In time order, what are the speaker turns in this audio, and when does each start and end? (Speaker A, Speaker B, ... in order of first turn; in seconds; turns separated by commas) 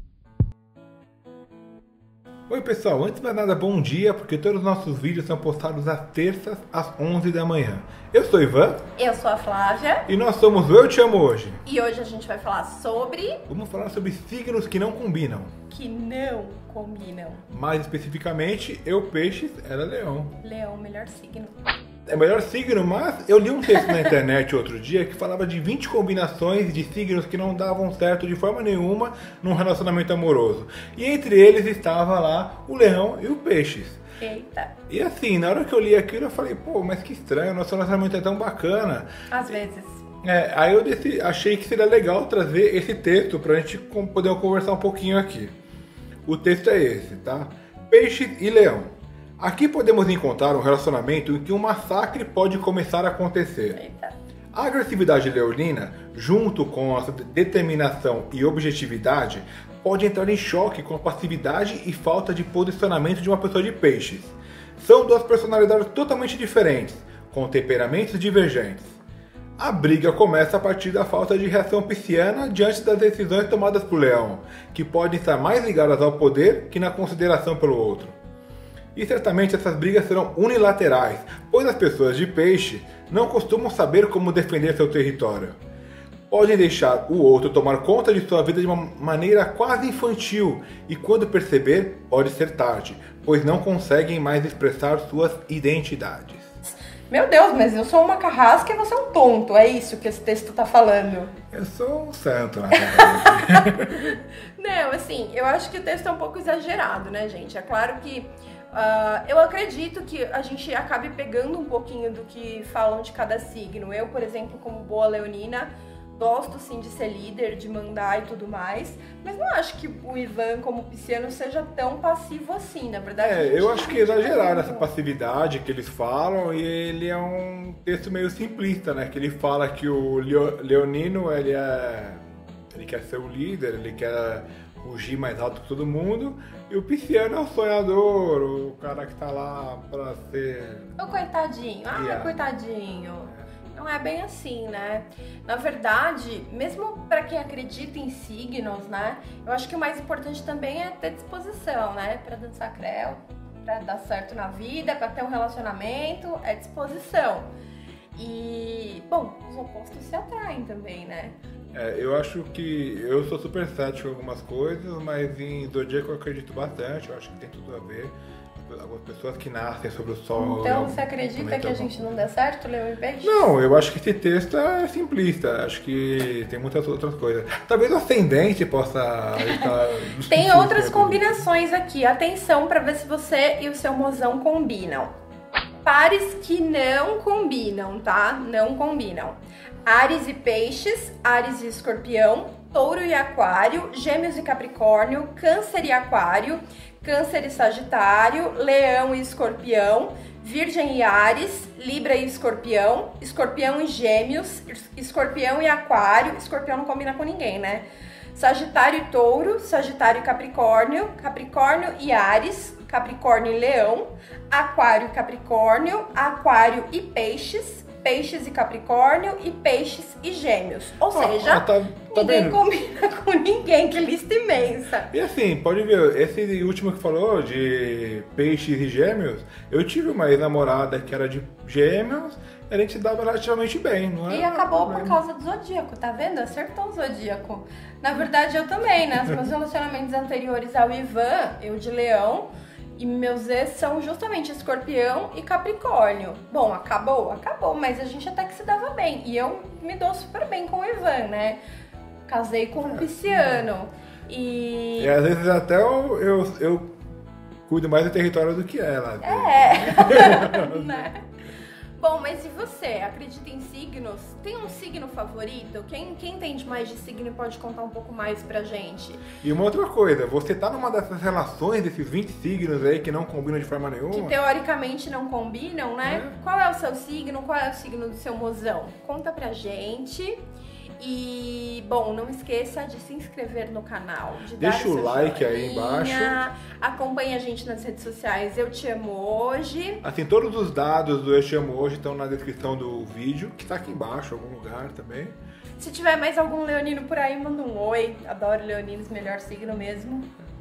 Speaker A: 2.5-8.8, Speaker B: 8.9-10.1, Speaker A: 10.1-11.6, Speaker B: 11.7-13.4, Speaker A: 13.5-15.5, Speaker B: 15.7-17.5, Speaker A: 17.5-20.4, Speaker B: 20.4-21.6, Speaker A: 22.1-34.0, Speaker B: 34.2-34.7, Speaker A: 34.9-39.1, Speaker B: 39.3-40.1, Speaker A: 40.2-45.5, Speaker A: 46.3-53.8, Speaker B: 53.7-54.1, Speaker A: 54.5-69.0, Speaker A: 69.6-78.2, Speaker A: 79.0-85.6, Speaker A: 86.3-96.6, Speaker B: 96.7-101.3, Speaker A: 101.5-104.1, Speaker B: 102.7-124.9, Speaker A: 123.2-141.0, Speaker B: 141.0-157.5, Speaker A: 141.9-142.4, Speaker B: 158.2-161.4, Speaker A: 161.7-172.2, Speaker B: 170.4-173.5, Speaker A: 173.2-181.4, Speaker B: 179.4-179.7, Speaker B: 180.3-185.1, Speaker B: 185.8-225.1, Speaker A: 221.1-222.6, Speaker A: 225.1-235.2, Speaker B: 234.3-251.6, Speaker B: 252.3-255.1, Speaker A: 252.9-253.7, Speaker A: 255.0-256.9, Speaker A: 257.7-261.1, Speaker B: 259.2-261.2, Speaker B: 262.0-269.2, Speaker A: 269.4-274.4, Speaker B: 274.1-280.4, Speaker A: 276.0-276.4, Speaker B: 281.0-290.0, Speaker A: 284.6-286.4, Speaker A: 290.0-295.4, Speaker B: 295.8-300.3